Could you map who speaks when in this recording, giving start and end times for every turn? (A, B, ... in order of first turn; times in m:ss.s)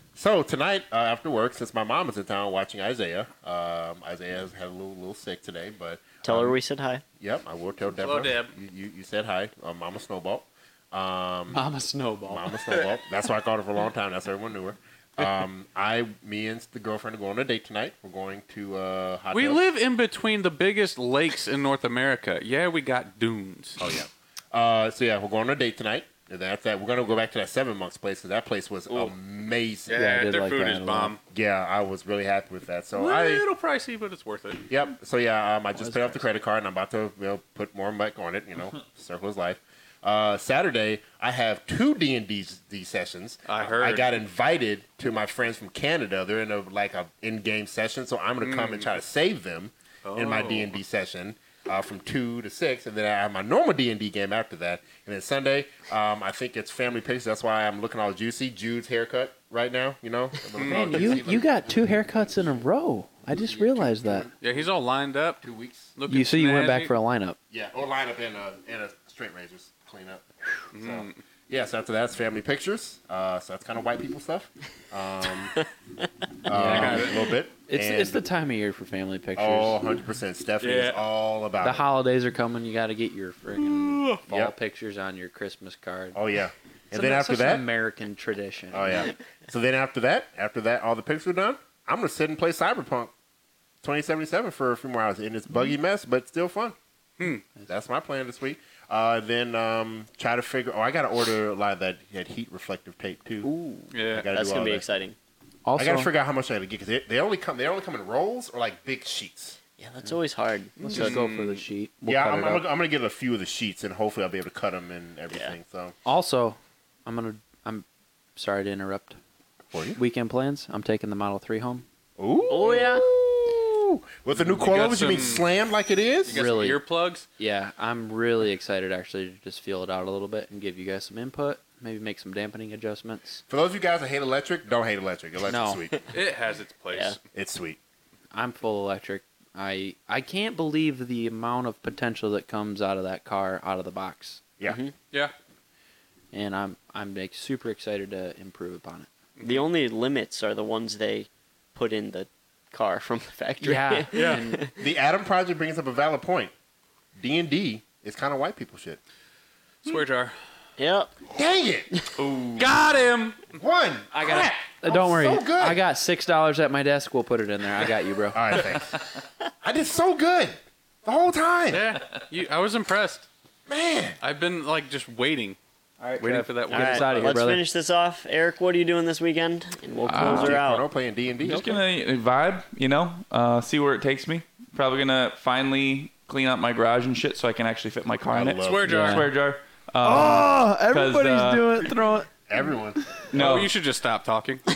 0:00.2-0:06.6 A
0:06.2-0:07.0 B
0:07.2-0:11.6 A
0:08.0-0:08.5 C
0:11.5-0:12.6 D
0:12.3-0:19.6 A
0:19.3-0:23.8 C
0:23.8-0:30.0 A
0:29.9-0:31.2 C
0:29.9-0:31.2 D
0:31.3-0:33.5 A
0:33.0-0:34.7 C
0:34.7-1:02.1 A
0:35.8-0:36.2 D
0:43.5-0:44.1 C
0:48.4-0:48.9 C
0:50.1-0:50.8 C
1:00.6-1:01.1 C
1:00.6-1:04.3 D
1:03.4-1:04.2 A
1:04.3-1:05.4 C
1:05.4-1:05.9 A
1:06.0-1:06.9 C
1:06.1-1:07.4 D
1:07.5-1:15.6 A
1:10.7-1:11.2 C
1:16.4-1:18.2 A
1:16.5-1:17.1 D
1:16.6-1:17.3 C
1:17.7-1:19.8 D
1:19.4-1:21.9 A
1:20.6-1:21.0 C
1:21.6-1:26.2 D
1:26.1-1:27.7 A
1:26.9-1:29.1 D
1:28.7-1:33.1 A
1:33.8-1:36.8 A
1:37.7-1:43.5 A
1:43.5-1:43.8 D
1:43.9-1:44.3 C
1:44.1-1:44.8 A
1:44.3-1:45.2 B
1:45.6-1:46.1 D
1:45.8-1:49.6 A
1:49.8-1:51.2 B
1:50.8-1:52.6 D
1:50.8-1:51.6 C
1:52.0-1:56.0 A
1:56.0-1:57.8 D
1:58.4-1:59.2 D
1:59.7-2:00.0 A
2:00.0-2:01.8 D
2:02.2-2:06.5 A
2:02.5-2:03.0 B
2:04.4-2:05.0 D
2:04.6-2:05.4 C
2:06.3-2:07.3 C
2:06.3-2:06.8 D
2:07.4-2:13.4 D
2:13.5-2:16.0 A
2:15.5-2:15.8 D
2:16.1-2:17.2 C
2:17.3-2:17.8 A
2:18.3-2:24.4 D
2:24.6-2:24.9 B
2:26.3-2:29.1 D
2:29.4-2:29.7 C
2:29.4-2:34.7 B
2:33.6-2:34.7 D
2:34.1-2:34.4 C
2:34.8-2:36.5 A
2:37.2-2:39.0 A
2:39.8-2:40.4 C
2:40.8-2:41.2 B
2:41.3-2:41.9 A
2:42.2-2:42.7 E
2:42.6-2:43.5 C
2:43.5-2:45.8 A
2:44.1-2:48.4 D
2:48.3-2:49.0 A
2:49.6-2:51.9 A
2:51.7-2:53.3 C
2:53.7-2:54.2 A
2:54.2-2:55.6 C
2:56.0-2:57.6 D
2:56.2-2:57.4 C
2:56.7-3:00.8 B
3:00.0-3:00.6 E
3:00.1-3:01.8 A
3:01.4-3:12.0 E
3:08.3-3:09.1 A
3:08.6-3:09.3 C
3:08.9-3:09.3 D
3:10.0-3:12.3 D
3:12.5-3:13.1 A
3:13.3-3:13.7 E
3:13.3-3:14.6 C